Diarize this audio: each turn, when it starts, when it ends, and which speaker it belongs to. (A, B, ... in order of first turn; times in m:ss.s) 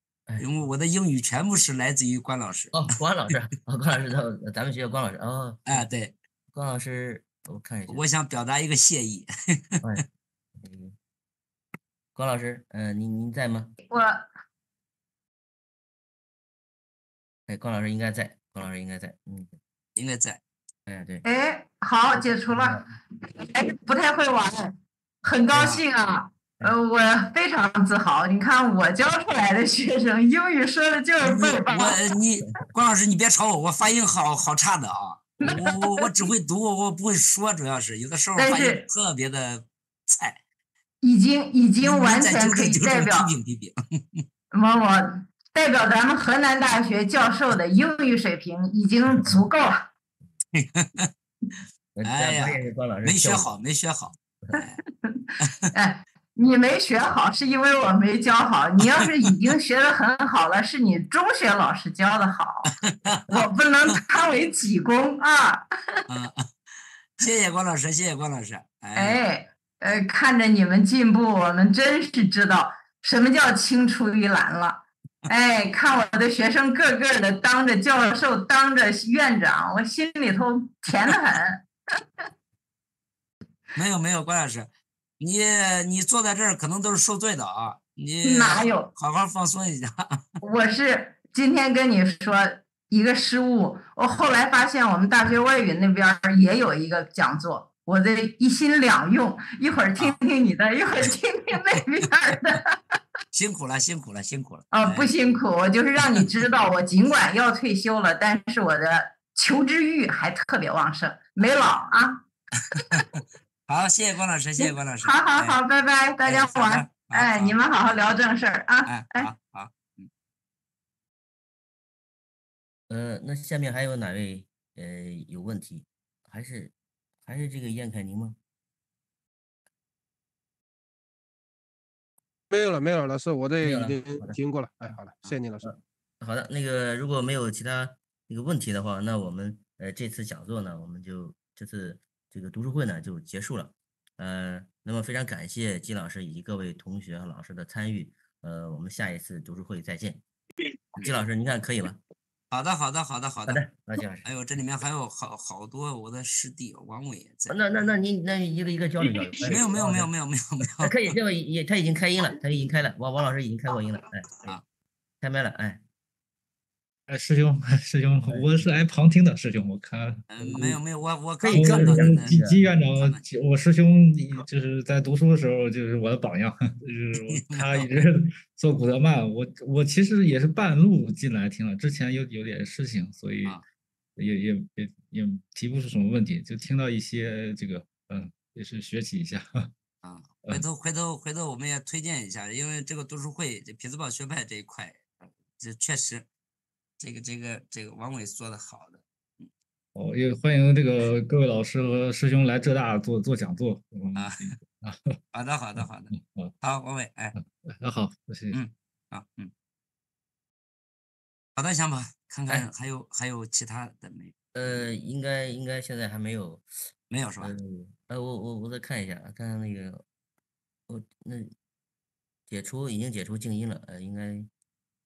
0:00.4-0:02.8 A
0:02.7-0:05.8 B
0:05.7-0:06.1 A
0:06.5-0:08.0 B
0:07.9-0:09.8 A
0:10.6-0:10.9 B
0:12.1-0:13.7 B
0:13.9-0:14.3 C
0:17.5-0:19.5 B
0:20.0-0:20.4 A
0:20.9-0:21.2 B
0:21.2-0:32.0 C
0:22.5-0:22.8 B
0:25.5-0:25.8 B
0:31.2-0:40.4 A
0:35.4-0:36.2 C
0:38.4-0:38.8 C
0:41.0-0:43.3 C
0:41.8-0:44.2 A
0:44.5-0:49.9 C
0:50.5-0:51.1 A
0:51.9-0:53.5 B
0:52.0-0:54.8 A
0:55.1-1:02.7 C
0:55.4-0:55.7 A
1:02.8-1:04.0 A
1:03.3-1:05.6 C
1:06.1-1:06.5 A
1:07.2-1:09.2 A
1:09.0-1:21.6 C
1:23.7-1:30.2 A
1:28.2-1:28.9 C
1:30.4-1:42.8 C
1:43.3-1:45.1 A
1:44.7-1:52.2 C
1:52.6-1:55.6 A
1:54.6-1:59.3 C
1:56.2-1:57.6 A
1:58.9-2:00.1 A
2:02.9-2:06.7 B
2:07.2-2:08.4 B
2:12.5-2:15.7 D
2:13.6-2:14.4 B
2:15.3-2:30.2 B
2:31.0-2:32.0 B
2:32.5-2:33.6 A
2:33.5-2:34.2 B
2:34.2-2:37.6 A
2:37.5-2:40.1 B
2:39.3-2:40.9 A
2:40.8-2:44.5 B
2:45.2-2:45.8 B
2:47.1-2:50.8 E
2:50.3-2:52.4 A
2:51.4-2:52.6 B
2:51.5-3:03.6 E
2:52.9-2:53.3 A
2:57.1-2:57.9 A
3:04.2-3:09.7 E
3:10.0-3:16.3 A
3:17.0-3:19.5 A
3:19.9-3:25.1 E
3:24.1-3:24.6 A
3:25.3-3:27.4 A
3:26.1-3:26.5 E
3:27.4-3:28.6 E
3:28.5-3:29.5 A
3:31.6-3:34.8 A
3:34.5-3:36.6 B
3:37.1-3:37.5 A
3:37.4-3:40.0 B
3:40.9-3:41.5 B
3:42.5-3:44.5 B